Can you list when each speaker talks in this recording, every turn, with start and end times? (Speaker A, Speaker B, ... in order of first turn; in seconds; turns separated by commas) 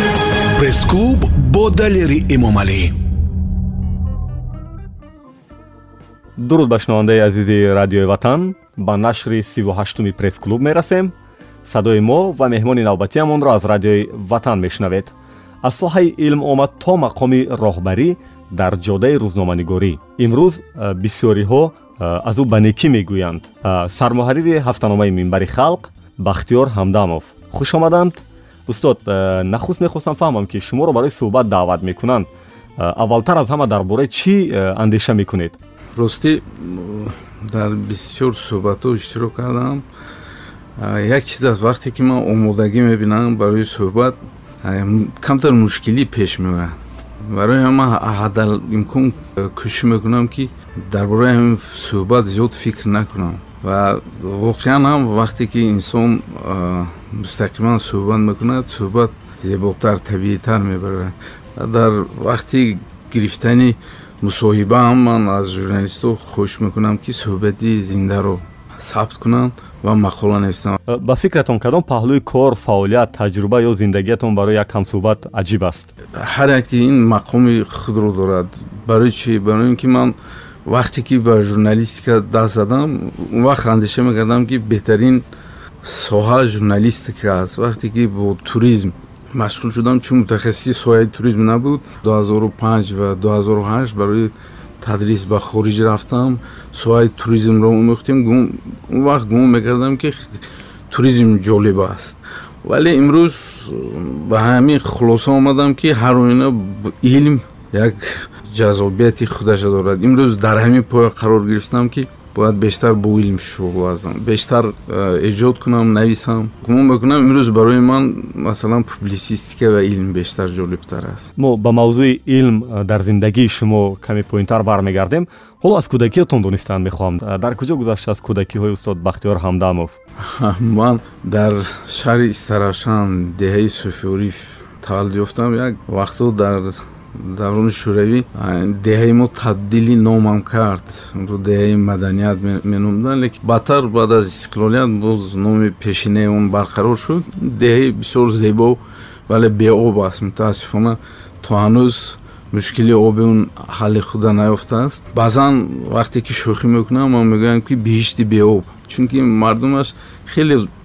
Speaker A: 0.5-2.9, Speaker B: 6.4-11.1, Speaker B: 11.6-35.6, Speaker C: 36.0-39.9, Speaker C: 40.8-70.8, Speaker B: 70.9-75.9, Speaker C: 76.1-80.2, Speaker C: 80.7-85.3, Speaker C: 85.8-121.3, Speaker B: 121.4-129.9, Speaker C: 130.2-160.7